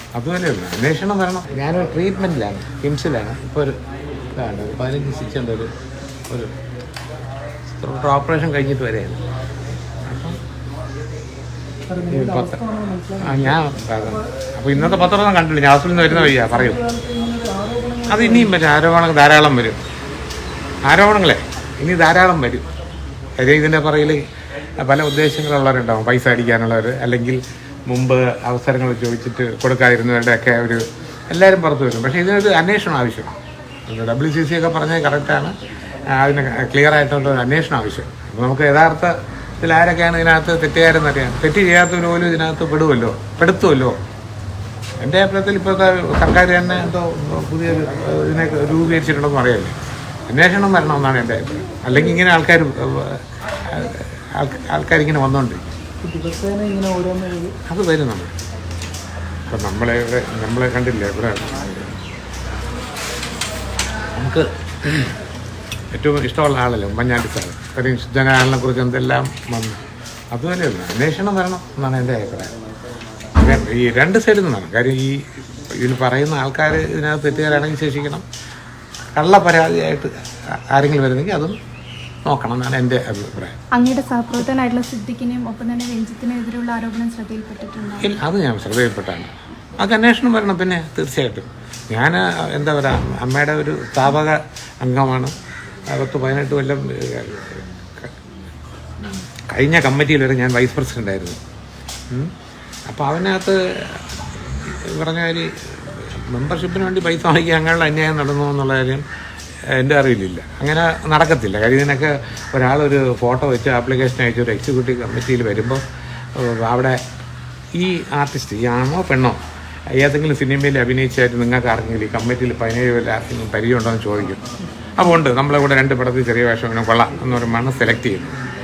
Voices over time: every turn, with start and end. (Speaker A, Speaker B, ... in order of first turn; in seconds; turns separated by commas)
Speaker A: 0.1-3.8, Speaker A: 4.3-5.7, Speaker A: 7.7-9.2, Speaker A: 10.1-10.4, Speaker B: 11.9-14.2, Speaker A: 12.1-12.6, Speaker A: 13.2-16.8, Speaker B: 14.8-15.1, Speaker B: 16.1-18.5, Speaker A: 18.1-19.8, Speaker A: 20.9-22.7, Speaker A: 23.4-24.2, Speaker A: 24.8-35.5, Speaker A: 36.1-44.0, Speaker A: 45.0-49.7, Speaker A: 50.3-55.8, Speaker B: 56.0-57.5, Speaker A: 57.7-58.3, Speaker A: 59.5-62.0, Speaker A: 64.2-65.1, Speaker A: 65.9-69.8, Speaker A: 70.3-72.6, Speaker A: 73.3-78.2, Speaker A: 79.2-81.6, Speaker A: 82.3-83.6, Speaker C: 83.7-88.1, Speaker A: 88.0-95.3, Speaker A: 95.9-98.2, Speaker A: 99.5-101.4, Speaker A: 102.9-109.0, Speaker A: 109.7-115.8, Speaker A: 116.4-117.0, Speaker A: 117.8-119.4, Speaker A: 119.9-124.5, Speaker A: 125.0-128.3